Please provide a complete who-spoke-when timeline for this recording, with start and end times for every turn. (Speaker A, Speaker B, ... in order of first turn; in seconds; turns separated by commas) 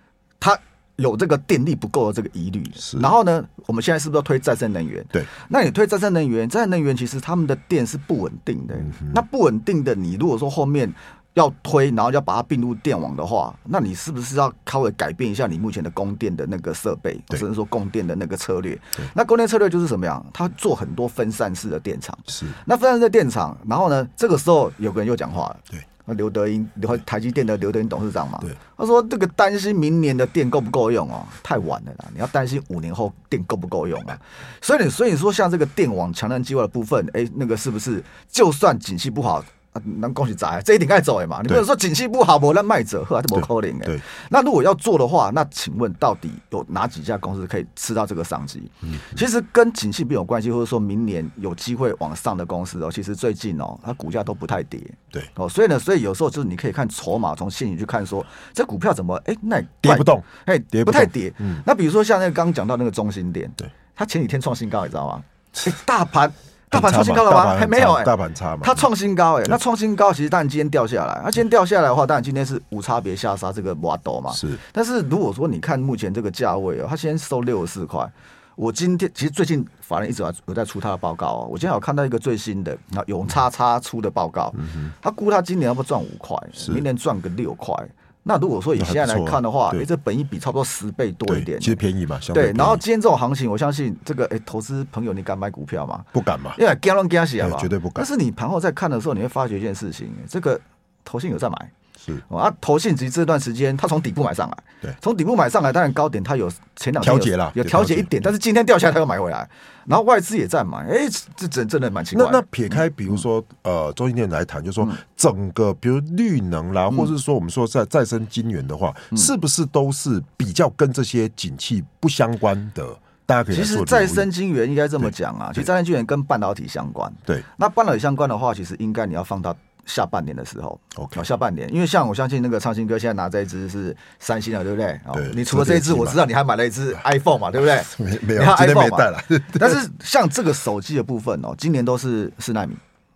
Speaker A: 0.4-91.8, Speaker B: 59.8-61.6, Speaker B: 66.7-68.9, Speaker B: 74.3-74.6, Speaker B: 88.8-89.9, Speaker B: 91.3-92.8, Speaker A: 92.3-101.7, Speaker B: 96.1-96.6, Speaker B: 97.4-98.1, Speaker A: 102.3-112.8, Speaker B: 107.0-108.3, Speaker B: 112.1-124.3, Speaker A: 123.5-142.8, Speaker B: 125.0-125.6, Speaker B: 131.0-131.2, Speaker B: 135.1-136.3, Speaker B: 137.8-139.8